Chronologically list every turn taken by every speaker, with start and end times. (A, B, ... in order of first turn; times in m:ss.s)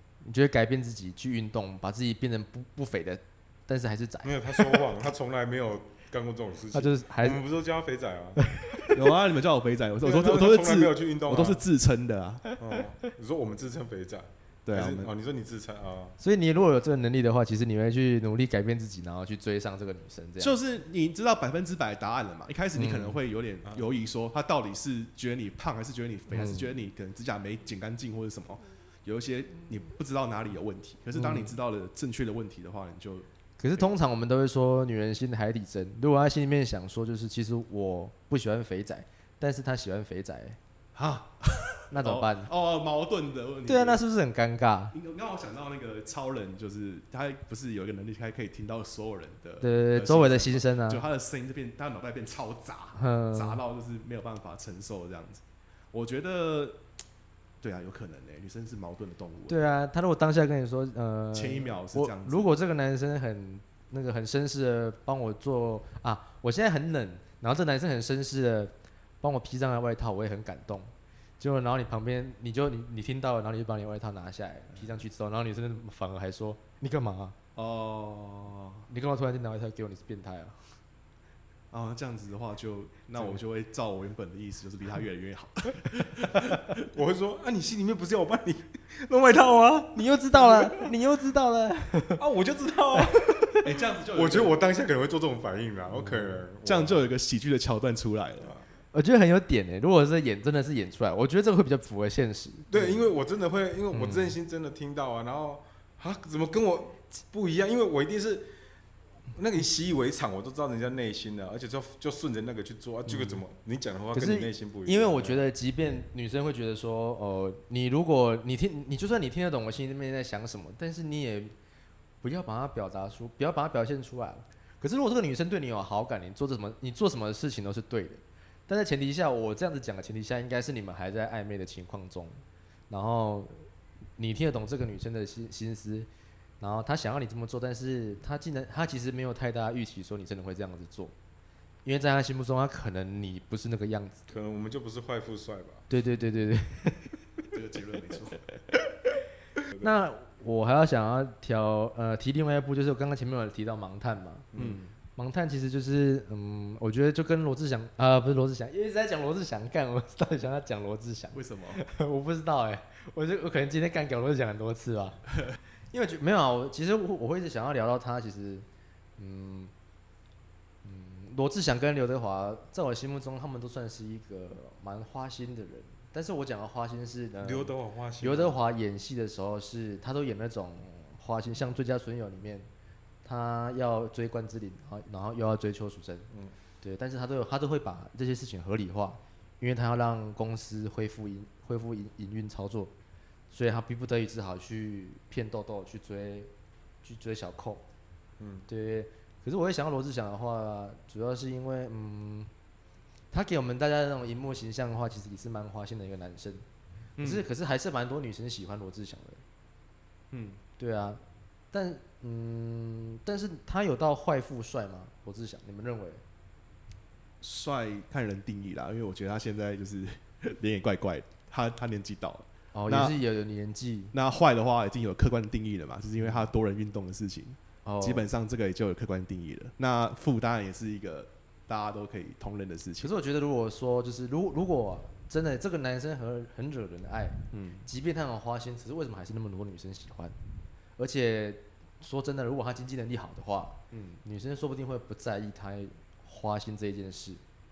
0:00.2-0:04.8 A
0:04.2-0:08.4 B
0:06.7-0:07.4 A
0:08.4-0:09.0 A
0:08.9-0:12.4 C
0:10.0-0:11.6 B
0:12.6-0:16.2 B
0:14.6-0:15.1 C
0:16.2-0:20.6 A
0:20.4-0:33.2 C
0:22.8-0:23.2 A
0:23.6-0:23.9 B
0:26.3-0:26.7 A
0:31.1-0:31.5 A
0:33.6-0:40.6 A
0:40.9-0:44.0 C
0:41.9-0:42.5 A
0:43.6-0:44.9 A
0:44.9-0:56.8 C
0:49.6-0:51.0 A
0:53.0-0:53.6 A
0:57.6-0:59.6 C
0:59.5-1:17.4 A
1:01.3-1:02.5 C
1:17.6-1:18.9 C
1:18.9-1:20.6 A
1:21.7-1:26.8 C
1:26.8-1:30.9 B
1:29.9-1:32.2 A
1:32.2-1:33.5 B
1:32.9-1:33.6 A
1:33.6-1:34.6 C
1:34.1-1:37.0 B
1:36.0-1:38.6 C
1:38.9-1:43.0 A
1:42.7-1:48.5 B
1:43.9-1:44.4 A
1:49.3-1:55.4 B
1:53.0-1:53.4 A
1:54.1-2:01.5 A
2:02.2-2:13.6 A
2:14.2-2:16.1 A
2:16.6-2:21.1 A
2:21.8-2:24.2 A
2:24.3-2:25.8 B
2:25.9-2:27.2 A
2:27.5-2:28.4 C
2:29.8-2:34.5 A
2:34.5-2:34.9 C
2:35.2-2:45.2 A
2:41.3-2:41.8 C
2:45.9-2:48.6 A
2:49.2-2:49.7 A
2:50.8-3:02.7 A
2:57.4-2:58.6 B
3:03.2-3:06.3 A
3:06.8-3:12.9 A
3:13.5-3:16.5 A
3:17.0-3:17.8 A
3:18.4-3:18.6 B
3:18.7-3:22.5 A
3:23.3-3:26.6 A
3:27.2-3:27.5 C
3:27.2-3:29.4 A
3:30.3-3:30.6 C
3:30.8-3:36.2 A
3:37.4-3:43.2 C
3:42.7-3:44.1 A
3:44.1-3:53.1 C
3:47.8-3:48.2 A
3:53.0-4:00.4 A
3:57.5-3:57.8 C
4:01.0-4:07.4 A
4:03.9-4:04.2 C